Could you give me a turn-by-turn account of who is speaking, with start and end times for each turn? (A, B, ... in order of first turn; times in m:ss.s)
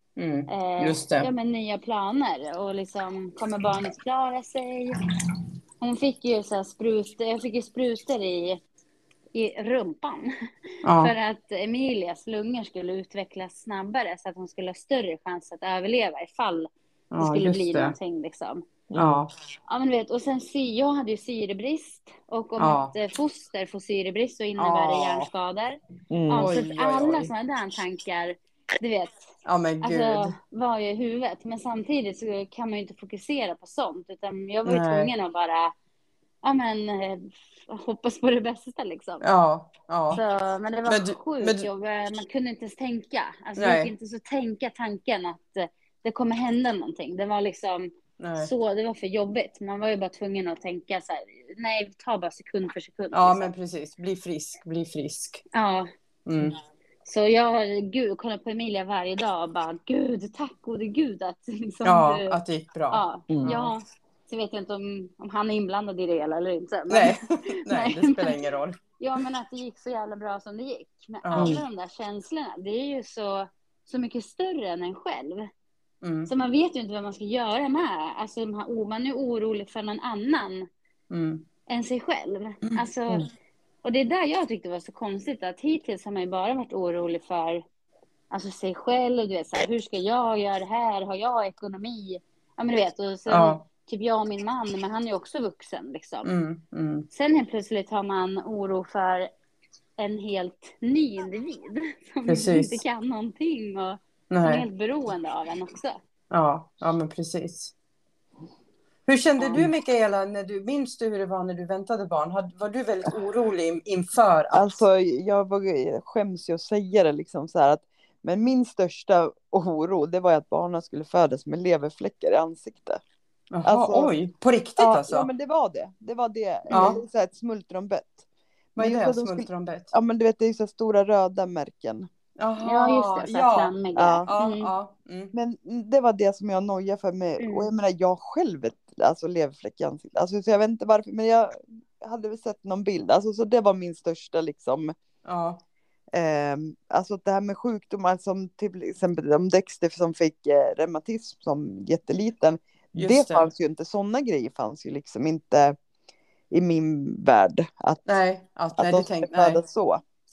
0:00.2-0:01.3 A
0:00.5-0:05.0 B
0:05.8-0:08.6 B
0:09.3-0:10.3 B
0:10.8-0:11.1 A
0:11.0-0:18.6 B
0:17.1-0:18.0 A
0:18.9-0:19.2 C
0:19.0-0:19.3 A
0:19.7-0:35.7 B
0:22.6-0:22.9 A
0:24.6-0:25.3 A
0:26.1-0:26.5 C
0:26.4-0:27.3 A
0:29.4-0:30.4 A
0:34.6-0:35.1 A
0:36.4-0:39.3 B
0:39.2-0:40.2 A
0:40.1-0:53.5 B
0:40.9-0:41.7 A
0:43.6-0:43.9 A
0:48.2-0:48.5 A
0:53.1-0:55.4 A
0:55.5-0:55.9 B
0:56.2-0:56.6 A
0:57.0-1:02.4 B
1:01.8-1:03.7 A
1:02.9-1:08.4 B
1:06.9-1:08.8 A
1:09.0-1:15.5 B
1:11.2-1:11.6 A
1:11.4-1:11.6 C
1:16.0-1:16.3 A
1:16.3-1:20.7 B
1:21.1-1:21.4 A
1:21.7-1:23.3 B
1:23.8-1:27.6 B
1:28.3-1:36.3 B
1:33.3-1:33.6 A
1:36.2-1:37.1 A
1:37.1-1:39.3 B
1:40.0-1:46.0 B
1:42.3-1:42.8 A
1:44.3-1:44.6 A
1:46.3-1:47.7 A
1:49.0-1:54.8 A
1:49.4-1:49.6 B
1:54.5-2:03.0 C
2:03.5-2:05.3 A
2:03.6-2:04.1 C
2:04.8-2:08.2 C
2:06.7-2:07.0 A
2:08.8-2:09.9 A
2:08.8-2:12.1 C
2:12.4-2:13.7 A
2:12.6-2:14.7 B
2:13.9-2:14.2 C
2:14.3-2:15.3 A
2:15.3-2:24.9 C
2:17.4-2:17.7 B
2:25.2-2:25.6 A
2:26.1-2:35.8 C
2:33.0-2:33.5 A
2:36.5-2:38.1 C
2:38.0-2:39.6 A
2:38.8-2:40.0 C